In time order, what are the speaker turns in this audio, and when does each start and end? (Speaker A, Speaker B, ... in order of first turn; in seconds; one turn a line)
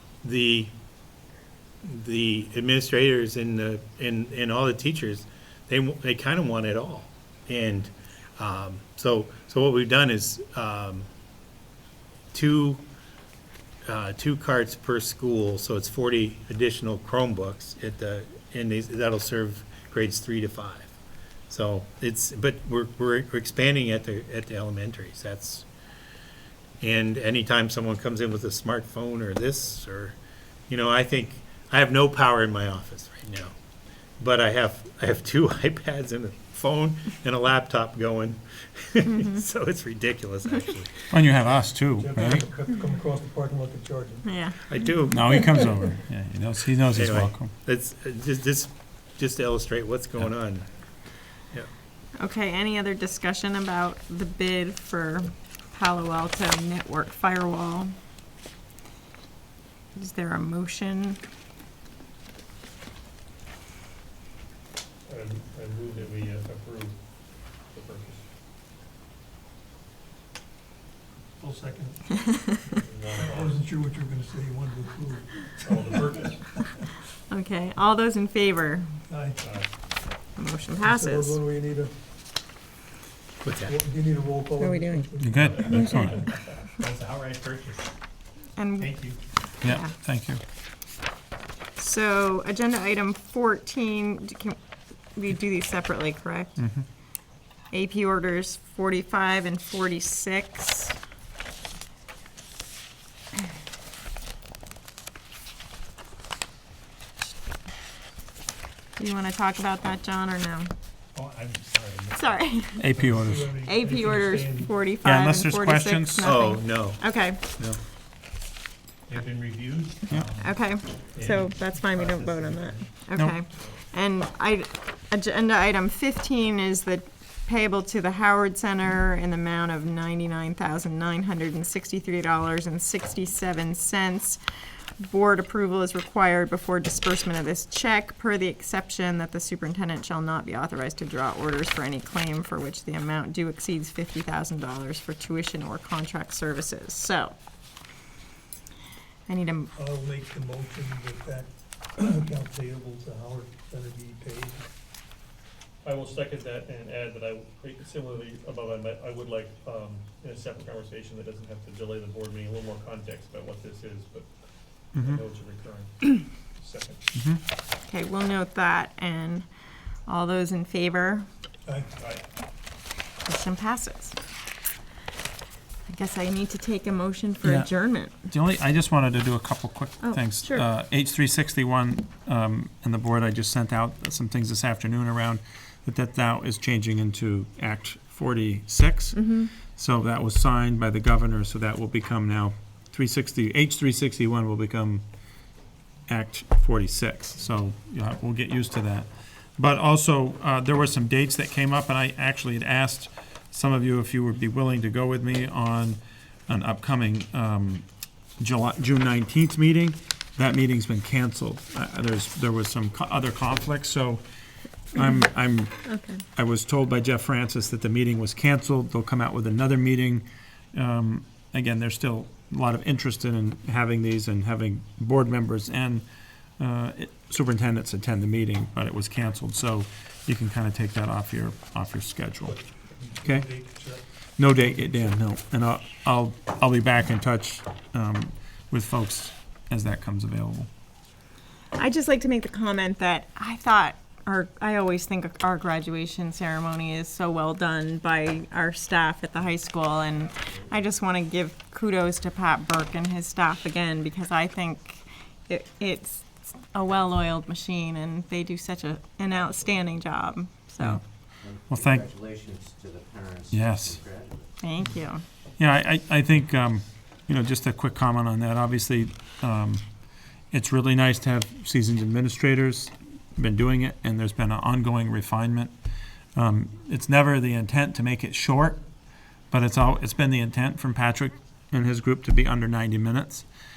Speaker A: 0.2-0.7
Speaker A: 1.8-11.1
Speaker A: 12.3-12.8
Speaker A: 13.8-21.0
Speaker A: 21.5-25.7
Speaker A: 26.8-30.2
Speaker A: 30.7-33.5
Speaker A: 34.2-41.0
Speaker B: 39.1-39.4
Speaker C: 41.1-42.5
Speaker D: 42.0-44.3
Speaker B: 44.2-44.6
Speaker A: 44.7-45.6
Speaker C: 45.1-47.5
Speaker A: 46.9-50.7
Speaker B: 52.2-57.9
Speaker B: 60.0-61.2
Speaker E: 65.1-68.3
Speaker D: 71.4-72.6
Speaker B: 72.3-72.7
Speaker E: 72.7-73.6
Speaker D: 73.2-76.8
Speaker E: 75.6-76.6
Speaker B: 77.3-78.9
Speaker D: 79.1-79.5
Speaker E: 79.4-79.8
Speaker B: 80.4-81.4
Speaker D: 80.8-81.9
Speaker A: 83.4-83.8
Speaker D: 83.6-86.2
Speaker B: 84.6-86.2
Speaker C: 85.2-86.2
Speaker A: 85.6-87.9
Speaker B: 88.6-89.1
Speaker A: 88.8-89.2
Speaker C: 89.6-90.4
Speaker B: 89.6-89.9
Speaker B: 91.8-94.6
Speaker B: 95.2-96.6
Speaker C: 96.6-96.8
Speaker B: 97.7-101.0
Speaker B: 109.0-110.7
Speaker A: 111.2-112.2
Speaker B: 112.1-112.9
Speaker C: 112.8-113.7
Speaker D: 113.0-114.7
Speaker B: 113.4-117.4
Speaker C: 114.9-116.3
Speaker A: 116.2-117.0
Speaker A: 119.1-120.5
Speaker B: 120.2-134.4
Speaker A: 121.2-122.7
Speaker C: 123.1-123.4
Speaker B: 135.0-147.3
Speaker B: 149.3-149.7
Speaker D: 149.8-154.7
Speaker E: 155.8-164.3
Speaker C: 164.9-165.2
Speaker E: 164.9-167.0
Speaker C: 167.1-167.4
Speaker B: 167.9-169.5
Speaker B: 170.1-171.3
Speaker E: 172.0-172.2
Speaker B: 173.3-174.2
Speaker B: 175.9-178.2
Speaker C: 177.4-177.7
Speaker C: 178.3-195.0
Speaker B: 180.0-180.7
Speaker B: 189.1-189.5
Speaker C: 196.1-207.8
Speaker C: 208.4-214.2
Speaker C: 214.9-226.1
Speaker B: 215.8-216.2
Speaker C: 226.6-232.6
Speaker D: 232.4-234.0
Speaker C: 233.2-233.5
Speaker C: 234.4-240.7
Speaker B: 241.8-261.0
Speaker F: 261.4-264.5
Speaker C: 261.7-262.1
Speaker C: 263.5-264.0
Speaker B: 264.6-265.2
Speaker C: 265.6-269.9
Speaker C: 270.5-275.7
Speaker C: 276.4-278.8
Speaker C: 279.5-283.5